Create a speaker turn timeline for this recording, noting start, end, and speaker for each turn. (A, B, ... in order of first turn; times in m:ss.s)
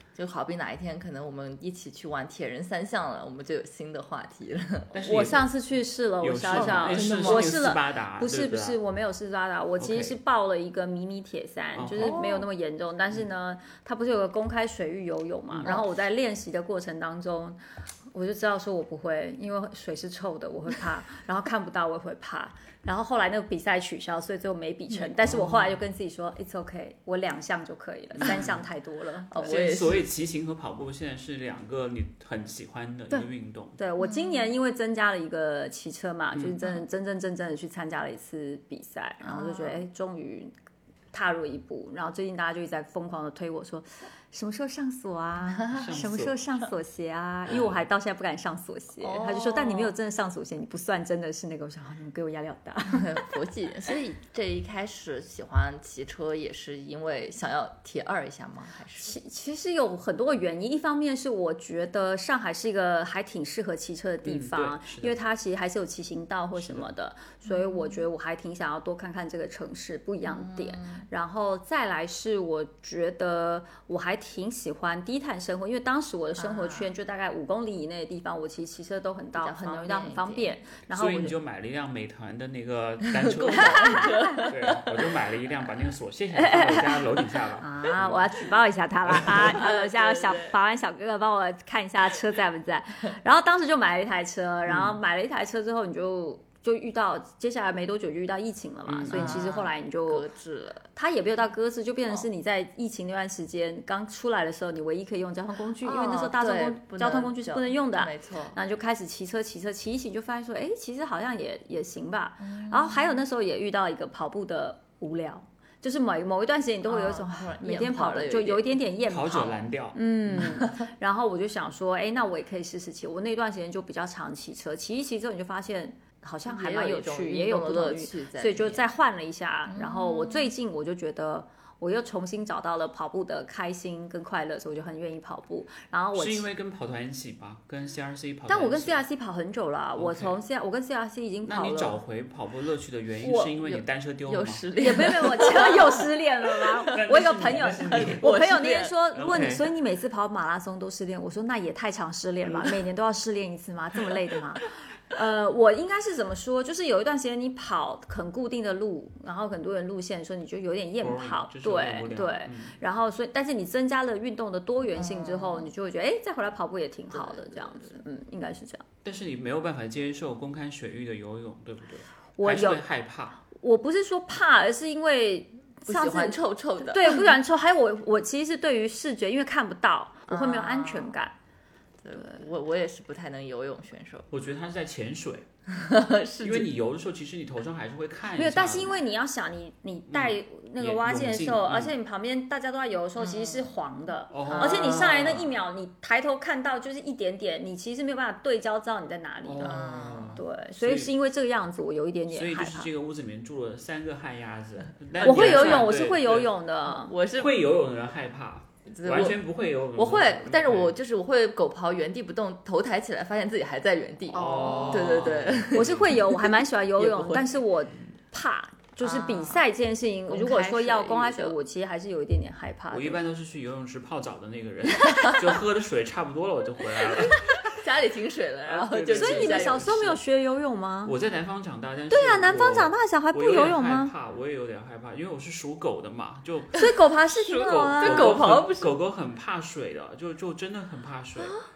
0:00.1-0:05.0 A
0:04.9-0:05.5 B
0:05.0-0:17.6 C
0:06.2-0:08.8 B
0:06.5-0:07.6 A
0:09.8-0:10.2 B
0:11.7-0:12.2 B
0:12.0-0:12.5 A
0:15.5-0:15.8 B
0:18.1-0:29.6 C
0:24.9-0:25.4 A
0:25.3-0:25.7 B
0:28.2-0:28.6 B
0:29.3-0:30.0 A
0:29.4-0:33.8 B
0:33.8-0:40.5 C
0:34.0-0:34.5 A
0:39.2-0:39.8 A
0:41.1-0:53.2 C
0:45.6-0:45.9 A
0:45.7-0:46.4 B
0:47.5-0:47.8 B
0:49.0-0:49.9 A
0:52.9-0:59.1 A
0:59.0-1:21.3 C
1:04.2-1:05.2 B
1:06.5-1:06.9 B
1:07.4-1:08.1 A
1:10.2-1:11.0 A
1:16.4-1:16.9 A
1:19.3-1:20.5 A
1:20.9-1:28.4 B
1:23.1-1:25.0 A
1:23.6-1:24.5 C
1:26.4-1:27.0 C
1:27.6-1:40.2 C
1:29.1-1:29.6 B
1:29.3-1:30.5 A
1:34.7-1:35.0 B
1:38.9-1:39.5 B
1:39.1-1:40.9 A
1:40.9-2:16.5 C
1:45.8-1:48.6 A
1:52.4-1:53.2 A
1:56.9-1:58.6 A
1:59.0-2:00.5 B
2:00.4-2:00.7 A
2:06.5-2:08.8 A
2:09.7-2:10.5 A
2:16.1-2:19.0 B
2:18.5-2:22.0 C
2:19.9-2:20.3 B
2:21.4-2:24.6 B
2:23.2-2:23.6 C
2:23.6-2:28.9 A
2:24.8-2:48.8 C
2:26.9-2:28.2 B
2:29.1-2:29.6 B
2:41.0-2:42.8 B
2:44.9-2:45.7 A
2:47.1-2:48.0 A
2:49.0-2:53.4 B
2:52.4-2:52.8 C
2:53.5-3:01.3 C
2:55.8-2:57.3 A
3:00.3-3:01.1 A
3:02.0-3:04.3 A
3:04.3-3:05.5 B
3:05.7-3:06.7 A
3:06.4-3:09.0 B
3:08.4-3:22.9 C
3:10.1-3:11.9 B
3:13.2-3:13.7 A
3:14.3-3:15.6 B
3:14.4-3:15.3 A
3:19.4-3:21.1 B
3:19.6-3:20.4 A
3:22.3-3:26.5 B
3:25.2-3:26.0 A
3:25.2-3:27.1 C
3:26.8-3:27.5 A
3:27.3-3:31.0 B
3:28.9-3:37.6 A
3:34.3-3:36.1 B
3:34.3-3:35.0 C
3:35.7-3:43.2 C
3:39.0-3:39.6 A
3:40.3-3:41.6 A
3:42.9-3:47.8 B
3:47.7-3:50.0 A
3:48.6-3:50.2 B
3:49.1-3:51.1 C
3:51.0-3:56.9 B
3:52.1-3:54.1 C
3:56.8-3:58.4 C
3:57.4-3:58.9 A
3:57.6-4:01.6 B